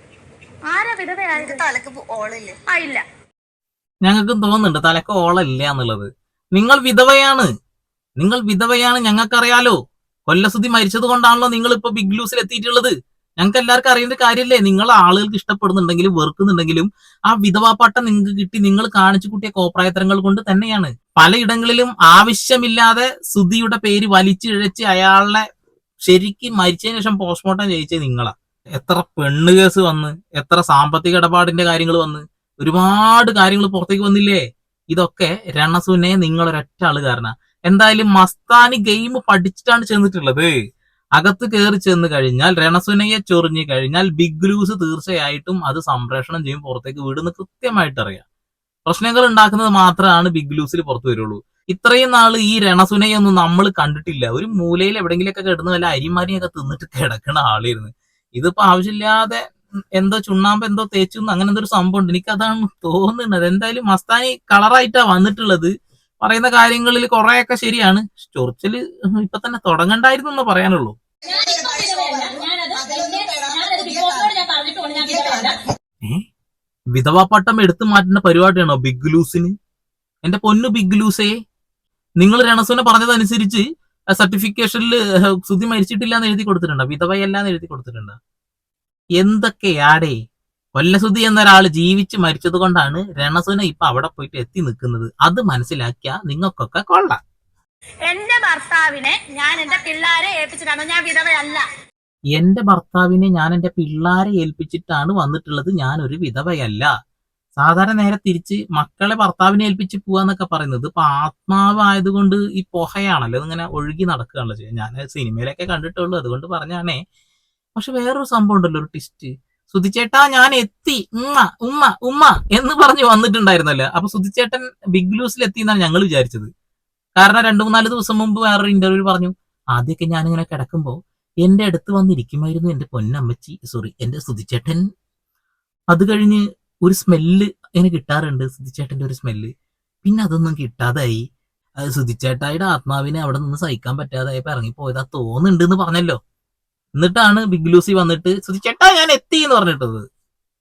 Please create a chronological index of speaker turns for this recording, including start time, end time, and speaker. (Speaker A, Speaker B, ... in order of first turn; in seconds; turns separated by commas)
Speaker A: 0.7-1.6, Speaker B: 1.3-2.5, Speaker A: 2.7-3.0, Speaker C: 4.0-7.5, Speaker C: 8.2-9.8, Speaker C: 10.3-25.4, Speaker C: 26.1-40.5, Speaker C: 41.2-48.2, Speaker C: 48.9-59.4, Speaker C: 60.0-65.7, Speaker C: 66.2-70.9, Speaker B: 71.2-74.3, Speaker A: 71.3-75.6, Speaker B: 75.0-75.5, Speaker C: 76.9-79.5, Speaker C: 80.2-81.3, Speaker C: 82.2-88.2, Speaker C: 89.2-90.1, Speaker C: 90.8-97.2, Speaker A: 98.0-101.6, Speaker C: 102.3-106.9, Speaker C: 107.6-117.0, Speaker C: 117.8-126.5, Speaker C: 127.2-134.8, Speaker C: 135.9-139.5, Speaker C: 140.0-141.2, Speaker C: 141.8-146.2, Speaker C: 147.0-150.0